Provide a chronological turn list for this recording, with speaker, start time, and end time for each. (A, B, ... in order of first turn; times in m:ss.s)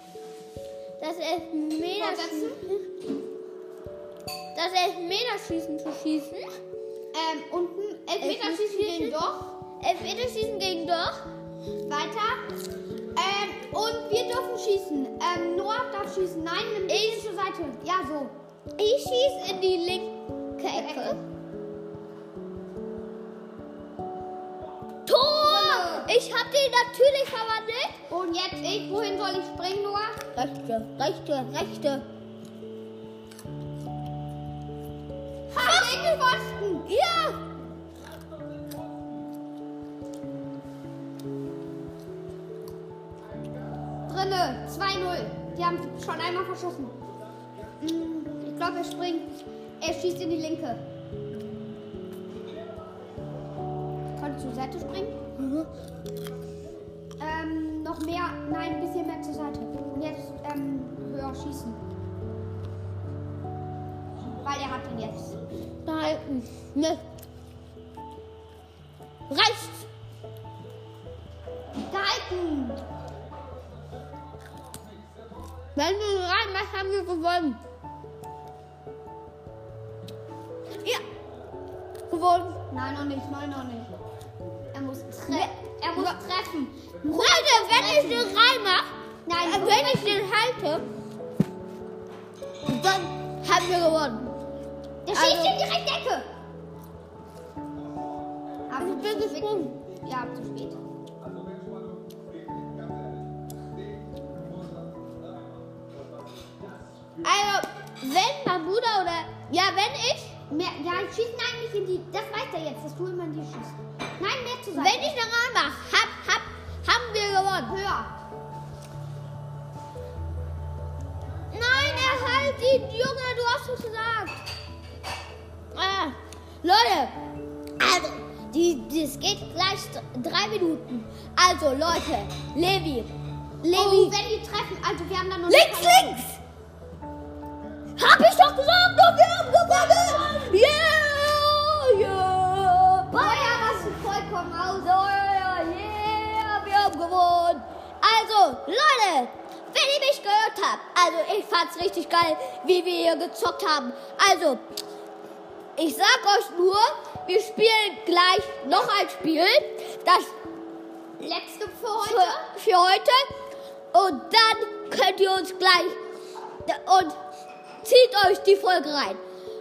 0:01.0-0:02.8 A
0:01.8-0:02.6 B
0:04.5-0:06.5 A
0:07.1-0:09.5 B
0:08.2-0:09.2 A
0:09.8-0:11.2 A
0:11.8-0:12.5 B
0:13.1-0:18.3 B
0:16.9-0:17.2 A
0:18.8-0:21.2 A
0:20.7-0:21.2 B
0:25.0-0:28.0 A
0:25.4-0:26.1 B
0:28.1-0:30.2 B
0:30.3-0:32.0 A
0:35.5-0:36.8 B
0:35.5-0:36.2 A
0:36.8-0:37.4 A
0:44.0-0:47.0 B
0:47.8-0:50.8 B
0:54.2-0:55.2 B
0:55.4-0:55.7 A
0:57.2-1:01.8 B
1:04.4-1:05.4 B
1:05.8-1:07.0 A
1:09.3-1:09.9 A
1:11.9-1:12.8 B
1:15.7-1:17.6 A
1:22.1-1:22.6 A
1:22.7-1:23.9 B
1:24.7-1:28.3 B
1:25.3-1:26.1 A
1:27.1-1:28.9 A
1:29.2-1:30.2 B
1:29.4-1:30.8 A
1:32.6-1:34.3 A
1:35.0-1:36.3 B
1:35.1-1:35.6 A
1:38.7-1:40.8 B
1:38.8-1:39.7 A
1:47.2-1:50.3 A
1:50.5-1:55.2 B
1:54.8-1:57.7 A
1:57.7-1:58.1 B
2:01.5-2:04.4 A
2:01.7-2:02.6 B
2:05.7-2:07.1 A
2:07.8-2:13.1 A
2:13.6-2:14.1 A
2:13.7-2:16.2 B
2:15.5-2:16.4 A
2:18.0-2:23.9 A
2:19.7-2:20.5 B
2:23.1-2:24.9 B
2:24.8-2:34.6 A
2:35.8-2:40.3 A
2:41.2-2:42.5 B
2:42.0-2:43.3 A
2:43.9-2:46.0 A
2:46.6-2:47.2 A
2:47.8-2:49.2 A